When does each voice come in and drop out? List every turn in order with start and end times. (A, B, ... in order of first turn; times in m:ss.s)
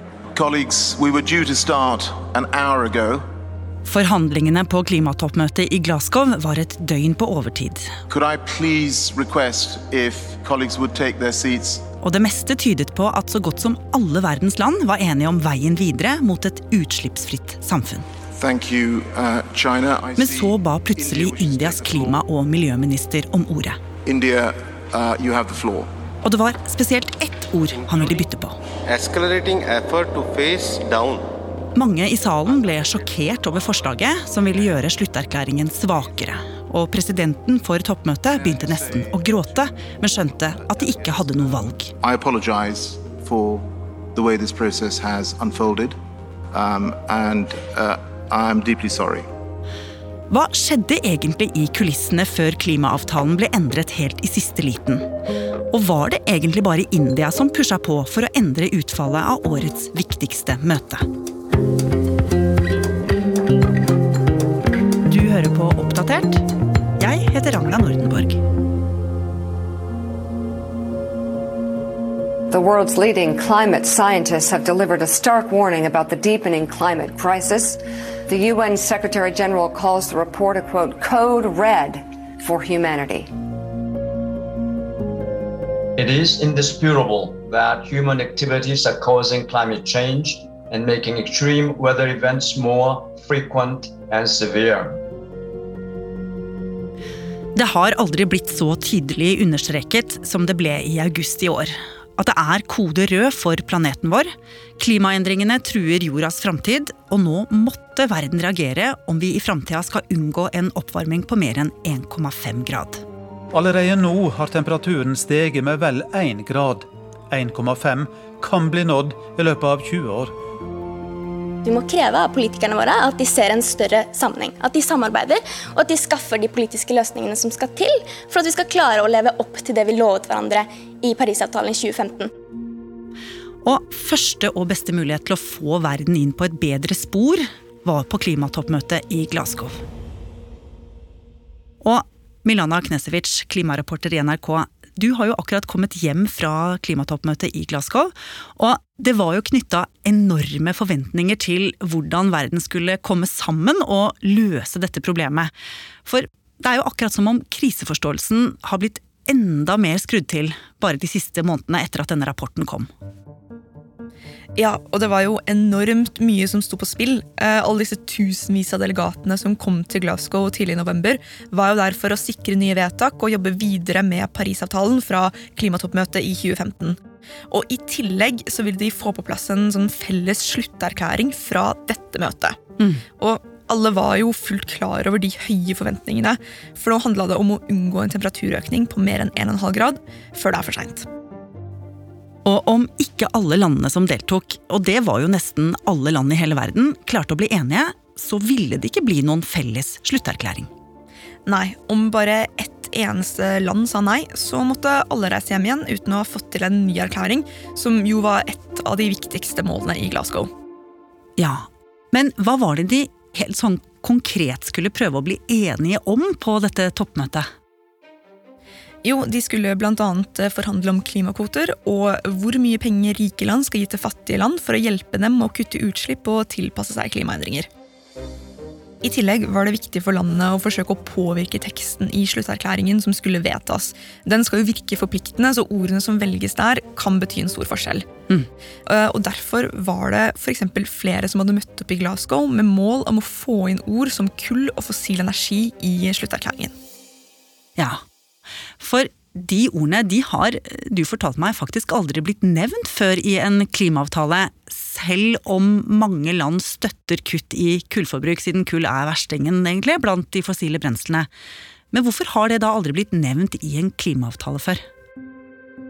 0:00.3-0:03.2 A
0:03.8-0:07.9 B
0:08.1-0:11.8 A
0:12.0-0:18.0 B
0:18.4-0:22.2 A
0:20.2-0:23.8 B
0:24.0-0:25.8 A
0:26.2-0:28.6 B
0:27.7-0:28.2 C
0:28.8-0:31.2 C
0:31.7-0:41.9 B
0:42.0-0:43.6 A
0:44.1-0:45.9 A
0:46.5-0:49.2 A
0:50.3-0:55.0 B
0:55.7-1:01.0 B
1:05.0-1:06.4 B
1:07.0-1:08.4 B
1:12.5-1:23.3 D
1:26.0-1:34.9 E
1:37.6-1:44.3 B
1:44.8-1:53.0 B
1:53.5-2:00.3 F
2:01.6-2:12.3 G
2:13.6-2:19.8 B
2:21.8-2:35.5 B
2:36.0-2:42.9 B
2:44.6-2:57.0 H
2:57.5-3:02.6 H
3:03.2-3:11.0 H
3:12.4-3:20.7 B
3:21.4-3:30.5 H
3:31.4-3:37.5 B
3:39.0-3:47.7 H
3:49.0-3:58.0 H
3:58.8-4:06.7 H
4:08.8-4:21.3 B
4:21.9-4:24.8 B